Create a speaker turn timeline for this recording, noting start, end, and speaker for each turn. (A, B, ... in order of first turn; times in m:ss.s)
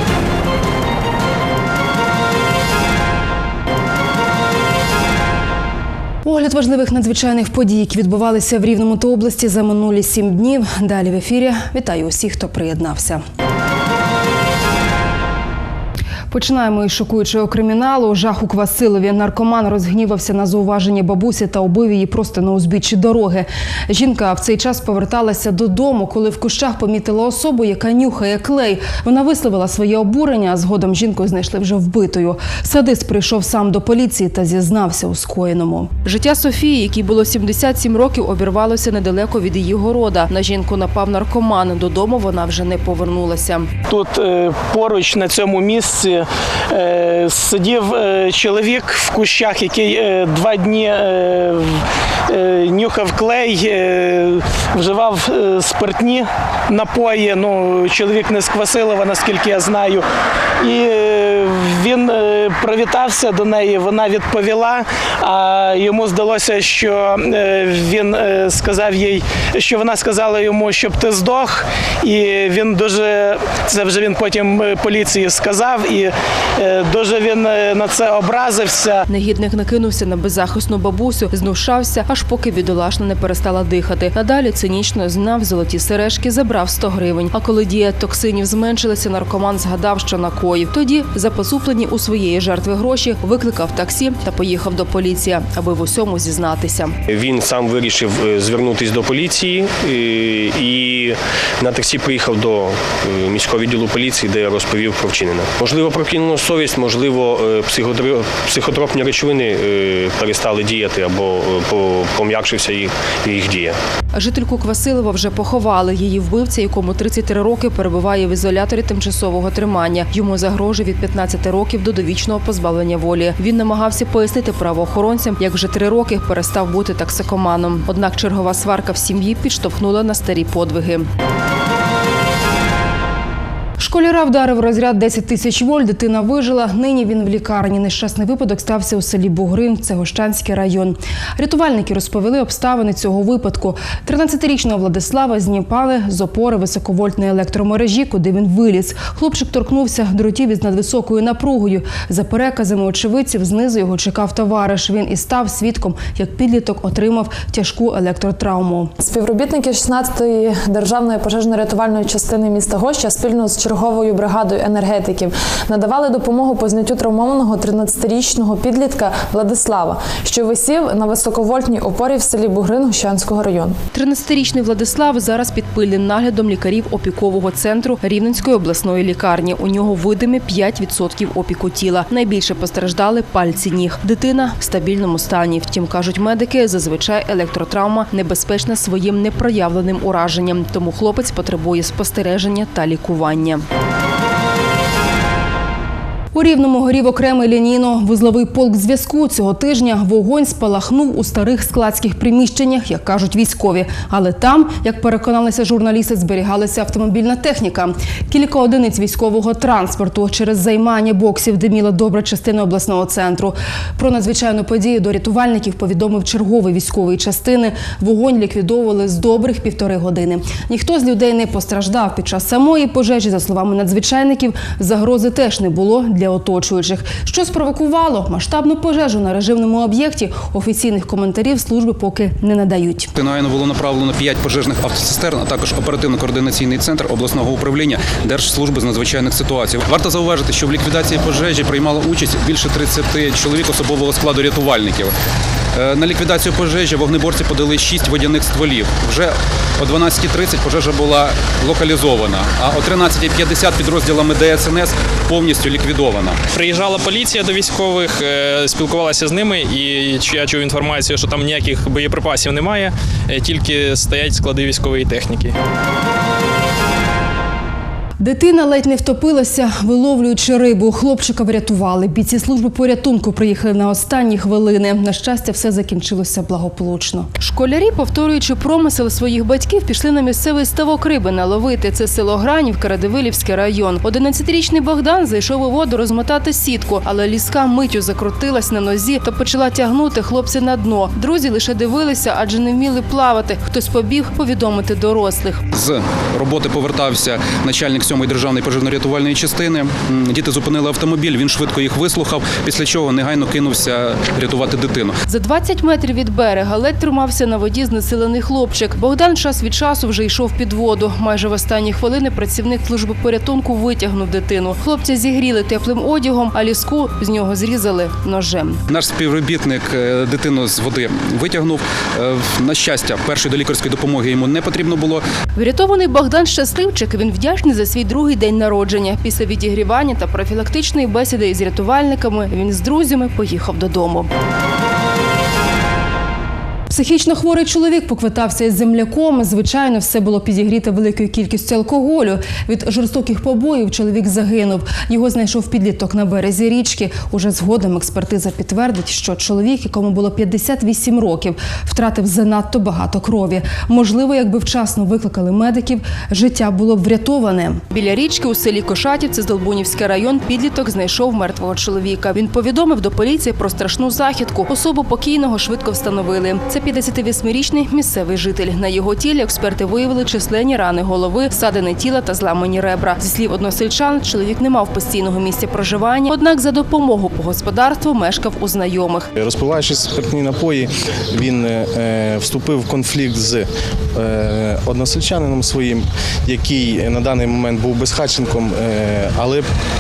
0:06.2-0:13.2 A
0:16.3-0:43.7 A
0:43.9-1:00.0 B
1:00.6-1:19.0 B
1:19.1-1:36.9 A
1:37.1-1:53.8 C
1:54.1-2:11.1 A
2:13.8-2:38.9 A
2:39.1-2:44.3 D
2:45.2-2:52.2 D
2:52.8-2:53.7 D
2:53.9-3:13.6 A
3:16.3-3:53.1 A
3:53.1-4:05.1 E
4:05.7-4:16.4 E
4:16.5-4:25.5 F
4:28.2-4:55.6 A
4:55.7-5:05.1 E
5:05.3-5:18.8 A
5:18.9-5:25.2 E
5:25.5-5:34.3 A
5:36.9-6:19.3 A
6:19.4-6:29.7 G